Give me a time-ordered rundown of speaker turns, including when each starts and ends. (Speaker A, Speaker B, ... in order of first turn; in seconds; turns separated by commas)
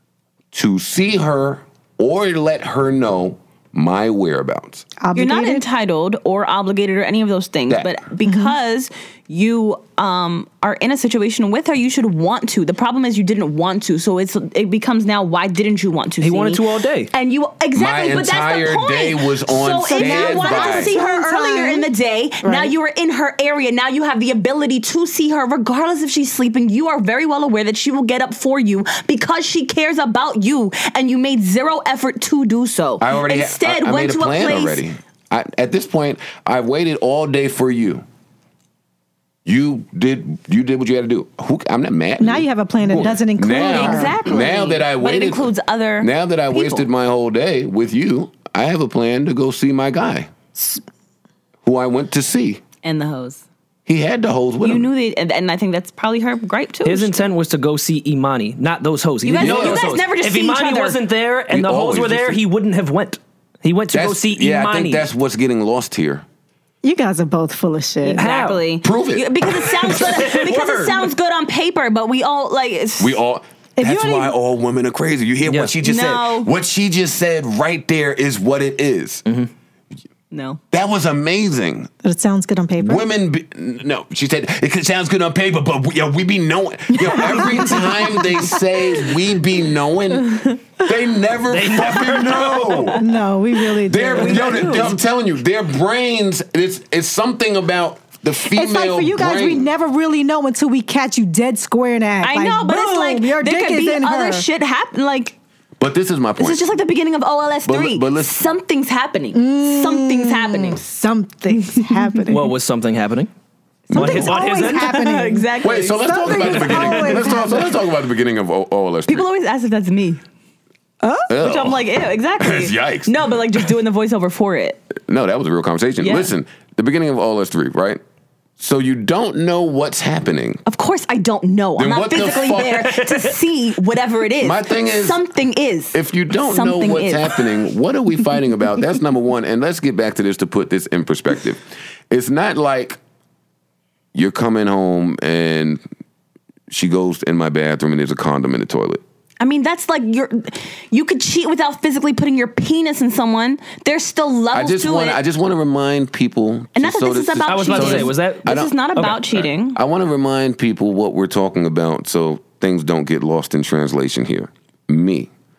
Speaker A: 0.5-4.8, Speaker B: 5.0-5.6, Speaker C: 5.1-34.8, Speaker B: 8.2-8.5, Speaker D: 16.2-17.1, Speaker A: 17.7-20.9, Speaker B: 19.9-21.9, Speaker B: 22.4-22.7, Speaker A: 33.0-38.0, Speaker A: 39.4-45.5, Speaker B: 42.2-44.1, Speaker C: 43.6-46.9, Speaker A: 46.0-50.3, Speaker A: 51.6-52.6, Speaker C: 52.8-53.4, Speaker A: 53.9-54.9, Speaker C: 54.6-57.2, Speaker D: 56.8-65.1, Speaker C: 59.2-61.0, Speaker A: 59.4-59.9, Speaker A: 61.5-62.4, Speaker A: 63.9-66.2, Speaker B: 66.8-68.2, Speaker C: 68.0-73.2, Speaker D: 68.2-68.6, Speaker A: 68.8-69.3, Speaker D: 69.7-71.1, Speaker A: 73.0-79.2, Speaker B: 73.8-74.3, Speaker D: 75.5-75.7, Speaker C: 75.8-76.5, Speaker C: 80.3-80.6, Speaker A: 80.7-81.9, Speaker B: 82.0-83.1, Speaker A: 82.8-93.0, Speaker B: 86.9-88.6, Speaker D: 91.5-93.0, Speaker B: 93.0-95.0, Speaker A: 93.7-99.7, Speaker C: 94.2-94.9, Speaker B: 98.4-104.5, Speaker C: 102.2-105.3, Speaker A: 105.8-106.6, Speaker C: 106.4-110.8, Speaker A: 107.6-108.5, Speaker B: 109.3-112.5, Speaker C: 111.5-112.2, Speaker D: 112.3-113.3, Speaker B: 113.9-117.8, Speaker D: 113.9-115.0, Speaker C: 114.0-117.0, Speaker A: 115.6-119.3, Speaker C: 119.1-120.2, Speaker B: 121.0-121.3, Speaker A: 121.3-123.1, Speaker C: 121.4-124.8, Speaker A: 125.0-128.0, Speaker C: 126.0-126.3, Speaker A: 128.6-130.6, Speaker C: 130.7-137.4, Speaker A: 131.8-133.0, Speaker A: 134.4-135.2, Speaker A: 135.9-143.0, Speaker A: 144.1-145.8, Speaker A: 146.7-149.0, Speaker C: 149.4-155.2, Speaker A: 154.5-165.3, Speaker C: 156.7-159.8, Speaker D: 157.4-159.2